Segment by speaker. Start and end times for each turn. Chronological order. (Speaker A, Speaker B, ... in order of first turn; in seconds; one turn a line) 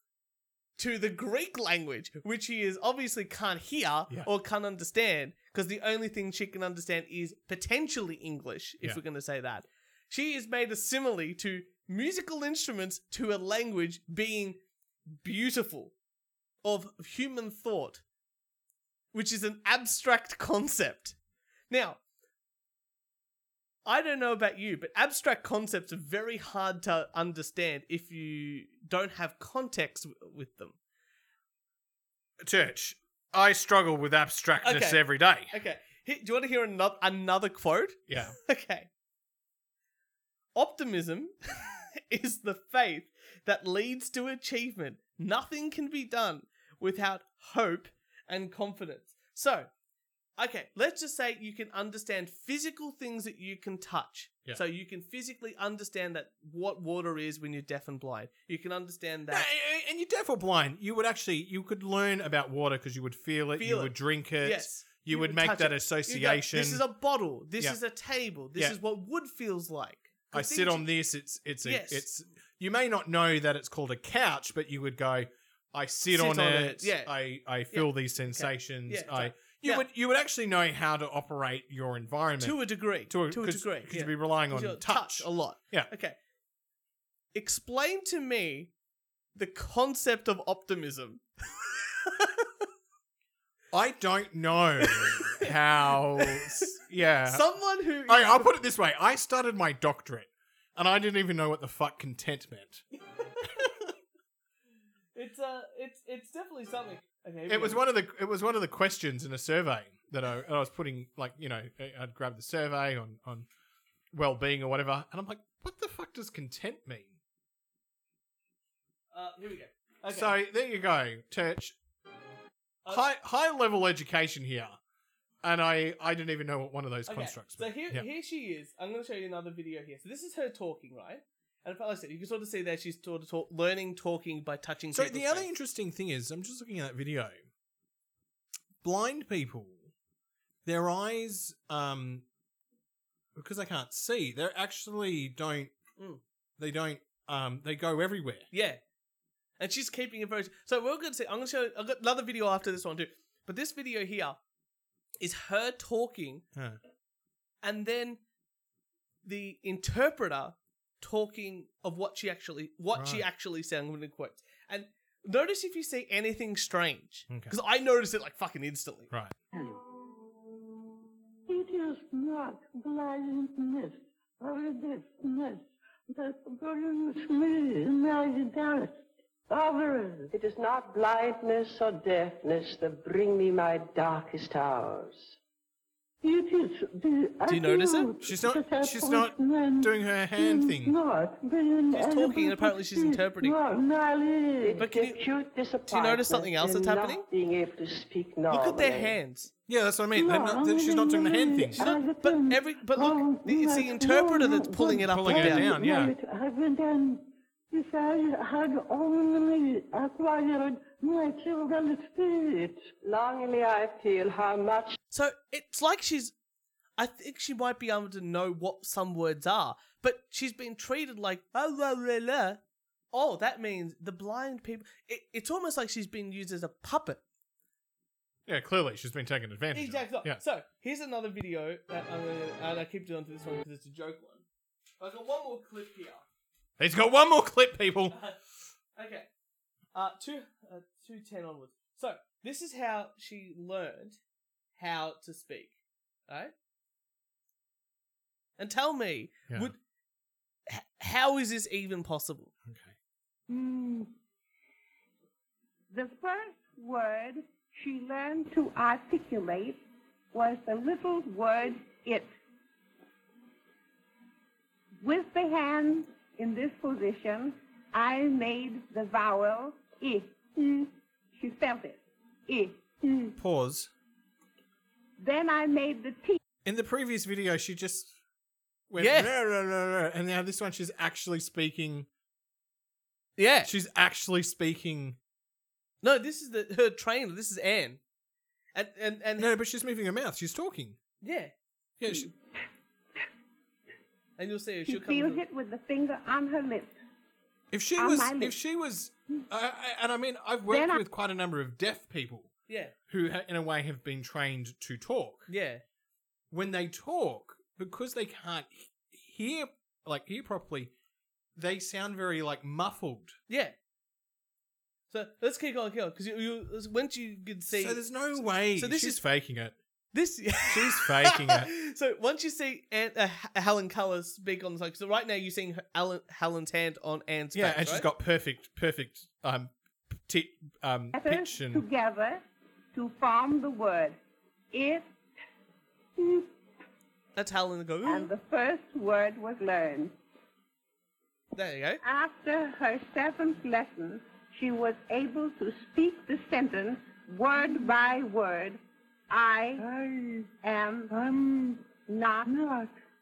Speaker A: 0.8-14.6
Speaker A: 15.1-15.9
Speaker A: 16.6-18.0
Speaker A: 19.1-21.2
Speaker A: 21.7-22.0
Speaker A: 23.9-30.8
Speaker B: 32.4-35.5
Speaker A: 34.6-38.9
Speaker B: 38.1-38.4
Speaker A: 40.5-49.7
Speaker A: 50.4-59.5
Speaker B: 59.3-66.8
Speaker A: 63.6-70.9
Speaker B: 70.3-85.9
Speaker A: 71.6-72.0
Speaker A: 76.1-77.1
Speaker A: 77.7-79.9
Speaker A: 82.4-86.2
Speaker A: 87.3-88.7
Speaker A: 89.3-92.4
Speaker B: 93.7-97.5
Speaker A: 94.8-96.7
Speaker A: 97.3-98.5
Speaker B: 98.0-102.8
Speaker B: 103.4-103.7
Speaker A: 105.1-107.8
Speaker B: 107.5-113.5
Speaker B: 114.1-117.1
Speaker A: 119.1-120.3
Speaker B: 120.1-121.8
Speaker B: 122.9-124.8
Speaker B: 125.4-128.1
Speaker A: 127.0-135.5
Speaker B: 134.9-137.4
Speaker B: 138.8-139.8
Speaker B: 140.6-142.2
Speaker B: 143.3-145.7
Speaker B: 146.6-148.5
Speaker A: 148.5-148.8
Speaker A: 149.6-154.4
Speaker A: 155.2-156.4
Speaker B: 156.5-156.8
Speaker A: 157.6-158.2
Speaker A: 159.2-169.1
Speaker B: 162.9-163.2
Speaker B: 167.3-167.6
Speaker C: 171.5-179.0
Speaker C: 179.5-180.3
Speaker D: 180.3-185.4
Speaker C: 186.2-194.8
Speaker A: 187.4-188.1
Speaker B: 188.2-190.9
Speaker A: 191.9-193.6
Speaker D: 194.6-199.2
Speaker A: 194.8-195.2
Speaker A: 195.8-197.2
Speaker A: 198.5-199.5
Speaker B: 199.7-201.8
Speaker C: 200.1-212.8
Speaker A: 201.8-205.7
Speaker B: 205.1-206.1
Speaker D: 213.0-214.9
Speaker A: 215.1-216.3
Speaker A: 217.0-222.6
Speaker A: 223.1-227.2
Speaker B: 228.5-230.4
Speaker A: 229.7-234.4
Speaker A: 235.0-236.2
Speaker B: 236.8-238.2
Speaker A: 238.1-238.4
Speaker A: 238.9-239.3
Speaker A: 239.9-244.2
Speaker A: 244.8-245.8
Speaker A: 246.3-246.5
Speaker A: 248.6-249.8
Speaker A: 250.7-252.5
Speaker B: 252.7-252.9
Speaker E: 253.5-254.1
Speaker E: 255.9-262.3
Speaker E: 265.0-273.4
Speaker B: 273.4-273.9
Speaker E: 275.2-276.4
Speaker B: 276.6-278.1
Speaker B: 278.9-282.1
Speaker A: 279.0-279.3
Speaker A: 283.4-283.7
Speaker B: 283.6-285.2
Speaker A: 286.0-288.0
Speaker A: 288.7-289.5
Speaker B: 289.4-291.0
Speaker A: 291.2-291.5
Speaker B: 292.0-292.3
Speaker A: 294.4-295.4
Speaker E: 294.9-296.9
Speaker B: 297.7-302.5
Speaker E: 298.0-298.6
Speaker E: 300.7-301.0
Speaker A: 302.7-302.9
Speaker B: 303.1-305.5
Speaker A: 305.5-305.8
Speaker B: 306.5-310.9
Speaker B: 311.6-313.4
Speaker A: 313.5-313.7
Speaker A: 315.1-319.2
Speaker B: 317.7-319.7
Speaker A: 320.1-328.1
Speaker B: 320.7-321.7
Speaker B: 327.5-331.9
Speaker E: 331.1-332.4
Speaker E: 332.9-334.2
Speaker E: 334.7-335.1
Speaker E: 336.2-336.5
Speaker A: 337.4-338.3
Speaker E: 338.0-340.1
Speaker A: 341.5-342.0
Speaker E: 342.0-349.8
Speaker C: 347.5-347.9
Speaker C: 349.8-350.5
Speaker E: 350.6-351.1
Speaker C: 351.1-351.9
Speaker E: 352.0-352.5
Speaker C: 352.4-352.9